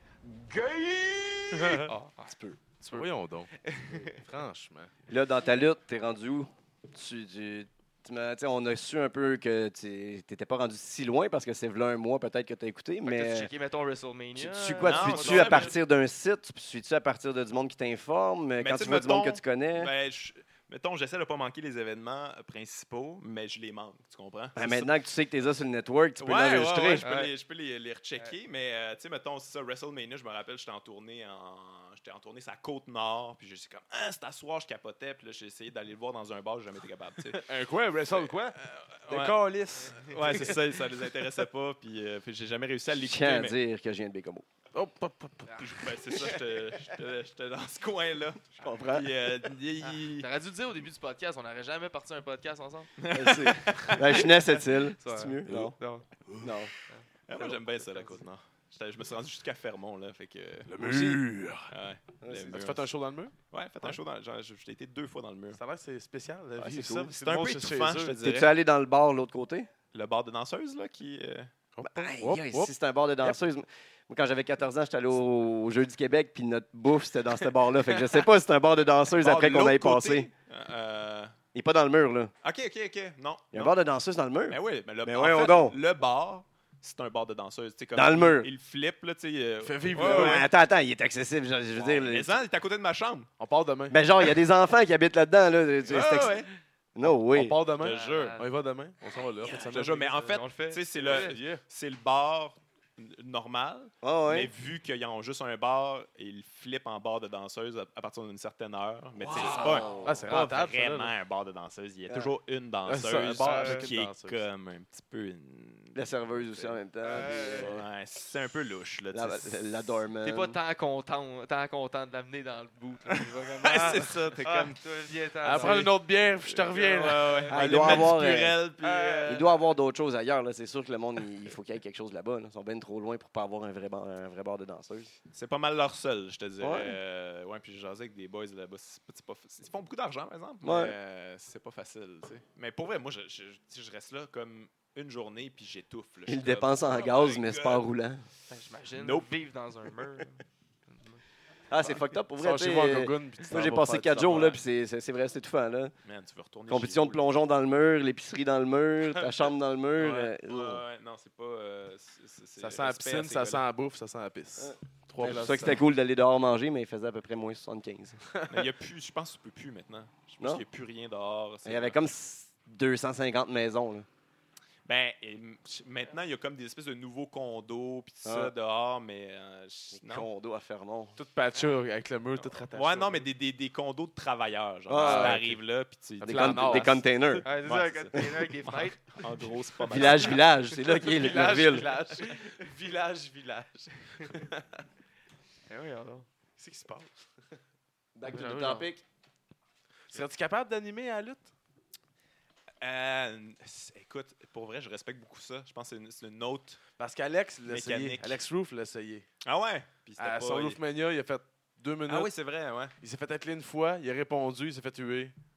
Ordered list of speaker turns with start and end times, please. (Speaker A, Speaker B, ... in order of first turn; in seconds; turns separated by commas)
Speaker A: 0.3-1.7, Speaker B: 1.5-1.9, Speaker C: 1.6-4.2, Speaker B: 2.9-4.9, Speaker A: 5.1-13.5, Speaker C: 13.1-15.8, Speaker A: 14.4-19.9, Speaker D: 14.8-15.8, Speaker D: 18.6-24.9, Speaker A: 24.6-27.1, Speaker D: 26.2-37.5, Speaker C: 27.0-27.3, Speaker B: 37.3-40.6, Speaker D: 38.0-43.6, Speaker C: 39.8-40.1, Speaker A: 43.0-44.5, Speaker B: 44.7-45.7, Speaker C: 45.5-46.4, Speaker D: 45.6-50.3, Speaker A: 48.6-49.1, Speaker C: 49.8-52.9, Speaker D: 53.0-54.3, Speaker A: 53.1-55.8, Speaker C: 54.0-56.1, Speaker B: 56.3-56.5, Speaker A: 56.4-56.7, Speaker C: 56.9-58.2, Speaker D: 57.3-62.9, Speaker B: 60.7-61.7, Speaker A: 60.8-61.2, Speaker A: 62.2-62.6, Speaker B: 62.4-63.3, Speaker D: 63.5-65.6, Speaker B: 65.5-68.2, Speaker A: 66.6-67.1, Speaker D: 67.0-68.5, Speaker A: 68.2-69.7, Speaker D: 69.9-71.5, Speaker B: 71.8-72.7, Speaker A: 71.8-80.3, Speaker D: 79.1-81.3, Speaker A: 81.5-82.3, Speaker D: 82.4-83.8, Speaker A: 83.5-85.8, Speaker D: 84.5-90.5, Speaker A: 87.9-88.5, Speaker B: 89.6-90.5, Speaker A: 90.0-92.4, Speaker D: 91.8-93.3, Speaker B: 93.4-94.0, Speaker A: 93.9-96.4, Speaker D: 95.9-96.5, Speaker A: 97.0-97.6, Speaker B: 97.0-100.2, Speaker D: 97.8-98.4, Speaker C: 97.8-98.5, Speaker D: 99.4-119.6, Speaker C: 100.2-101.4, Speaker B: 101.0-101.6, Speaker A: 104.0-104.5, Speaker A: 109.3-110.2, Speaker B: 109.4-111.1, Speaker B: 112.9-114.4, Speaker C: 113.4-113.9, Speaker A: 115.9-117.8, Speaker C: 117.0-117.8, Speaker A: 119.1-120.6, Speaker C: 120.2-126.0, Speaker D: 123.2-124.8, Speaker B: 125.4-127.8, Speaker D: 126.4-129.5, Speaker C: 127.2-127.5, Speaker A: 127.5-128.6, Speaker C: 128.8-129.5, Speaker A: 129.3-135.1, Speaker D: 135.3-147.8, Speaker A: 136.6-137.0, Speaker A: 140.6-141.0, Speaker A: 146.3-148.2, Speaker C: 148.5-151.2, Speaker D: 149.0-149.3, Speaker A: 151.7-155.9, Speaker B: 152.4-154.6, Speaker D: 156.0-157.2, Speaker A: 156.7-160.8, Speaker D: 160.0-163.7, Speaker B: 162.6-165.8, Speaker A: 164.6-168.2, Speaker D: 168.5-172.0, Speaker A: 171.7-174.1, Speaker D: 174.8-180.3, Speaker A: 178.2-178.5, Speaker A: 179.9-181.2, Speaker B: 181.2-183.3, Speaker D: 182.4-187.0, Speaker A: 184.9-185.5, Speaker B: 185.0-185.6, Speaker B: 186.2-187.4, Speaker A: 186.2-187.5, Speaker C: 187.4-189.5, Speaker D: 187.6-190.4, Speaker A: 189.9-191.9, Speaker B: 190.9-194.6, Speaker C: 192.1-192.6, Speaker C: 195.7-196.3, Speaker B: 196.6-197.2, Speaker A: 198.2-199.0, Speaker B: 198.3-198.9, Speaker B: 200.1-201.5, Speaker D: 202.8-206.8, Speaker B: 207.0-209.3, Speaker D: 207.7-208.4, Speaker D: 209.4-210.8, Speaker B: 210.2-212.3, Speaker D: 212.1-212.9, Speaker B: 213.0-215.3